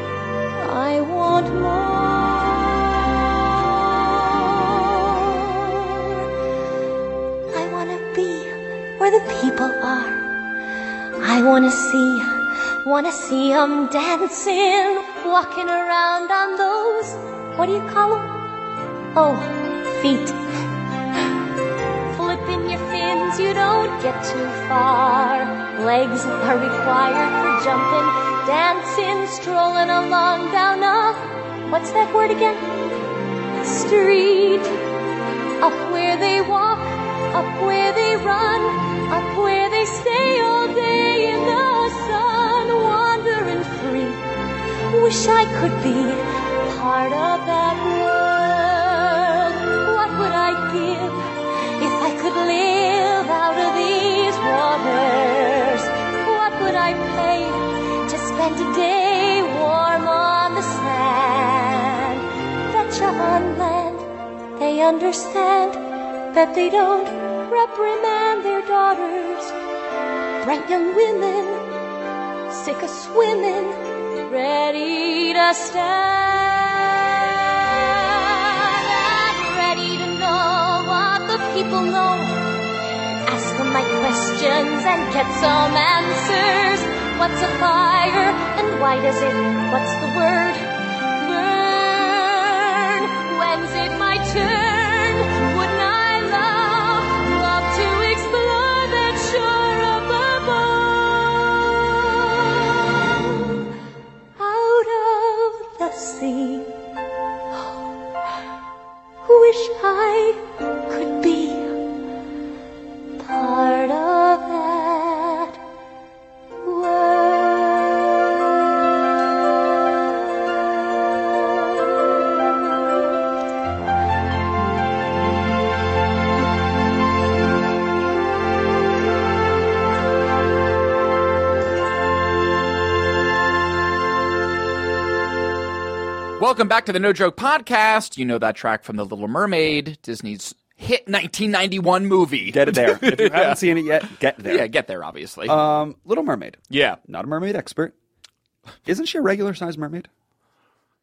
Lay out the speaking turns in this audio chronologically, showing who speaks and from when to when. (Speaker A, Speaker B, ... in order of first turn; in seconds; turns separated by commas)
Speaker A: 0.6-6.3, Speaker A: 7.5-10.3, Speaker A: 11.2-18.5, Speaker A: 19.1-20.4, Speaker A: 22.1-32.9, Speaker A: 33.6-34.7, Speaker A: 35.6-44.2, Speaker A: 44.9-51.3, Speaker A: 51.8-69.5, Speaker A: 70.4-71.8, Speaker A: 72.5-82.7, Speaker A: 83.2-103.6, Speaker A: 104.4-106.7, Speaker A: 107.5-107.8, Speaker A: 109.2-111.8, Speaker A: 113.2-115.6, Speaker A: 116.6-118.3, Speaker A: 121.5-122.8, Speaker B: 136.4-143.8, Speaker C: 142.5-144.7, Speaker B: 144.4-145.6, Speaker C: 145.4-147.9, Speaker B: 146.7-147.0, Speaker C: 148.8-150.1